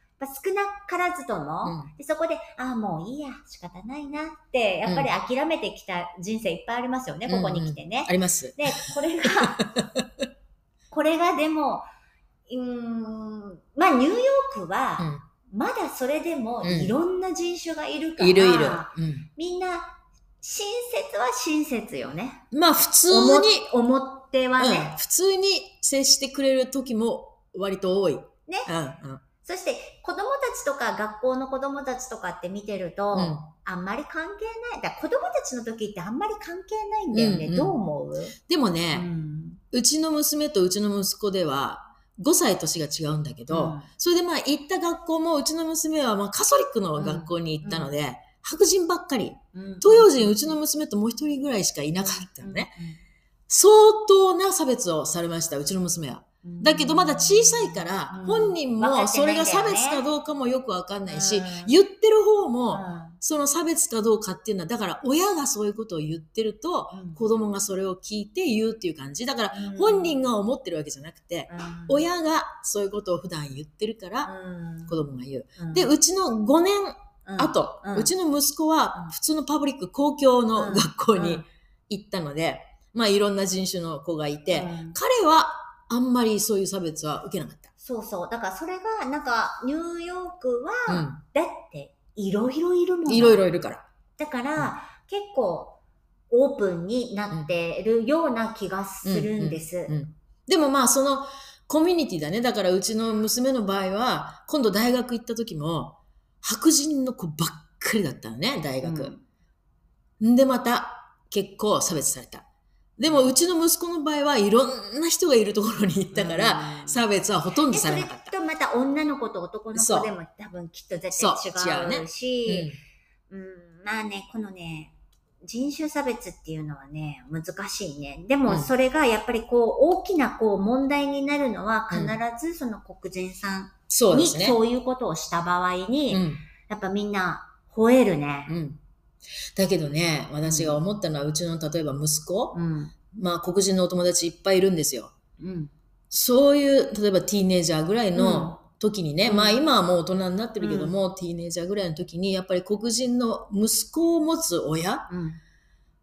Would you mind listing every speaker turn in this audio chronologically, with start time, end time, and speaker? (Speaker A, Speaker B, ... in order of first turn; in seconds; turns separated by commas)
Speaker A: 0.2-9.6, Speaker B: 1.6-1.9, Speaker B: 4.8-5.1, Speaker B: 7.3-8.9, Speaker B: 9.4-10.3, Speaker A: 10.9-11.8, Speaker A: 12.5-22.4, Speaker B: 16.6-16.9, Speaker B: 18.2-19.3, Speaker B: 22.5-23.7, Speaker A: 23.1-25.0, Speaker B: 24.6-29.2, Speaker A: 29.4-38.4, Speaker B: 33.1-33.4, Speaker B: 37.1-37.8, Speaker B: 38.5-39.1, Speaker A: 38.9-39.6, Speaker B: 39.7-52.7, Speaker A: 43.5-43.9, Speaker A: 47.0-47.9, Speaker A: 49.5-50.6, Speaker A: 52.0-53.0, Speaker B: 53.5-74.3, Speaker A: 56.4-60.0, Speaker A: 61.1-61.7, Speaker A: 62.7-63.2, Speaker A: 66.9-67.2, Speaker A: 69.5-70.2, Speaker A: 71.5-72.1, Speaker A: 74.2-75.0, Speaker B: 74.9-87.7, Speaker A: 75.6-75.9, Speaker A: 77.2-78.1, Speaker A: 80.5-81.4, Speaker A: 84.5-85.0, Speaker A: 87.8-93.4, Speaker B: 90.9-91.2, Speaker B: 93.1-93.8, Speaker A: 94.2-95.8, Speaker A: 96.3-99.9, Speaker B: 99.0-109.1, Speaker A: 108.8-109.2, Speaker B: 110.2-112.4, Speaker B: 113.0-118.3, Speaker A: 113.0-113.3, Speaker A: 116.1-117.0, Speaker A: 117.7-122.7, Speaker B: 119.7-120.1, Speaker B: 121.1-122.8, Speaker A: 123.3-124.9, Speaker A: 125.5-138.5, Speaker B: 131.9-132.2, Speaker B: 133.9-134.6, Speaker B: 136.1-136.4, Speaker B: 138.5-138.8, Speaker B: 139.5-142.6, Speaker A: 140.4-140.8, Speaker A: 142.5-142.9, Speaker B: 143.1-145.1, Speaker A: 145.4-145.7, Speaker B: 146.1-155.1, Speaker A: 148.1-148.6, Speaker A: 149.2-149.6, Speaker A: 150.6-150.9, Speaker A: 155.1-155.4